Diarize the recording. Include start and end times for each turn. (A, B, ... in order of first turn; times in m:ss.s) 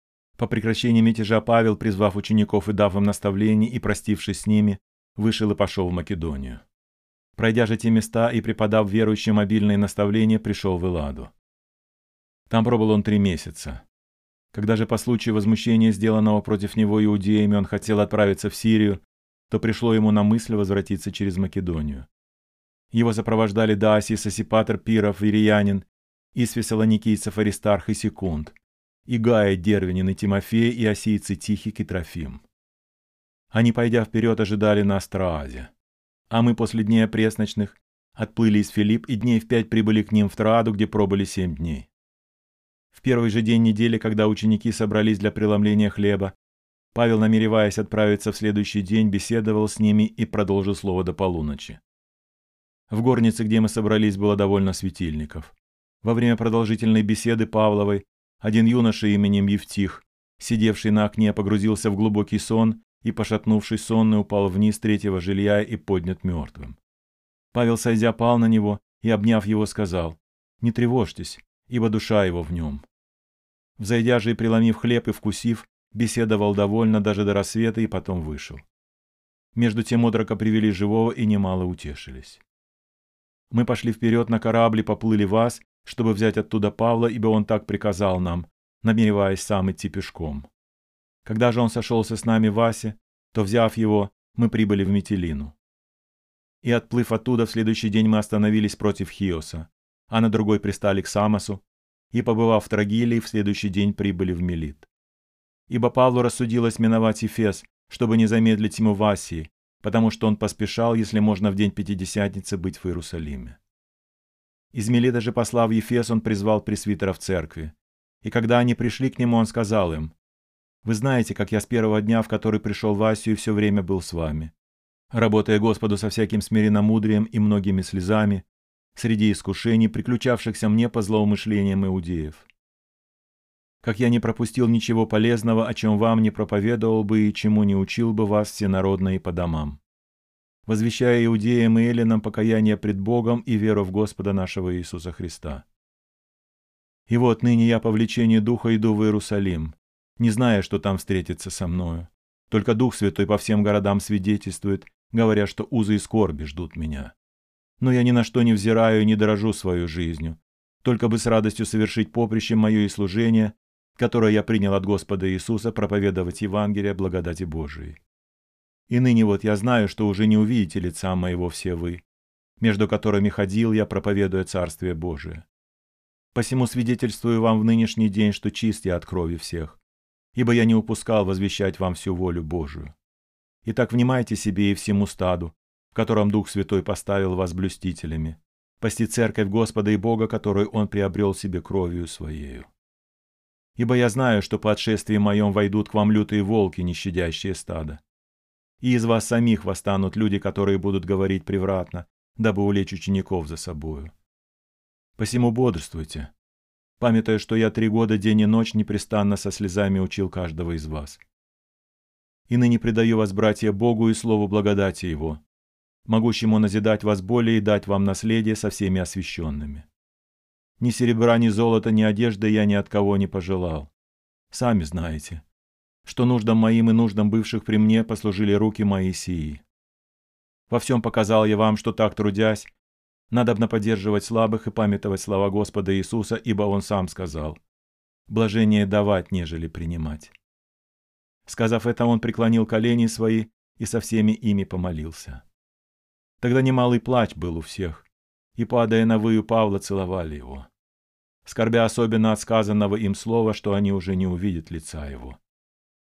0:00.4-0:06.6 A
0:07.4-0:11.3 A
0:12.5-0:13.8 A
0:14.5-0:22.1 A
0:22.9-0:28.6 A
0:29.1-0:32.4 A
0:33.5-0:35.7 A
0:36.3-0:41.9 A
0:42.9-0:46.3 A
0:46.9-0:51.8 A
0:52.9-1:06.8 A
1:07.5-1:12.8 A
1:13.8-1:18.6 A
1:19.6-1:22.4 A
1:23.5-1:30.5 A
1:31.2-1:35.6 A
1:36.6-1:44.9 A
1:45.7-1:53.6 A
1:54.7-2:00.2 A
2:00.8-2:04.5 A
2:05.1-2:12.5 A
2:13.8-2:19.8 A
2:20.7-2:25.7 A
2:27.1-2:37.1 A
2:37.8-2:48.0 A
2:48.9-2:52.0 A
2:52.6-2:55.4 A
2:56.3-2:59.8 A
3:00.4-3:02.9 A
3:03.6-3:12.7 A
3:13.8-3:18.0 A
3:18.8-3:24.1 A
3:25.2-3:26.3 A
3:27.0-3:31.2 A
3:32.5-3:35.4 A
3:36.1-3:39.9 A
3:40.8-3:43.9 A
3:44.5-3:45.4 A
3:46.0-3:49.6 A
3:50.7-3:52.7 A
3:53.3-3:57.6 A
3:58.3-4:00.3 A
4:01.5-4:05.4 A
4:06.4-4:10.7 A
4:11.4-4:15.4 A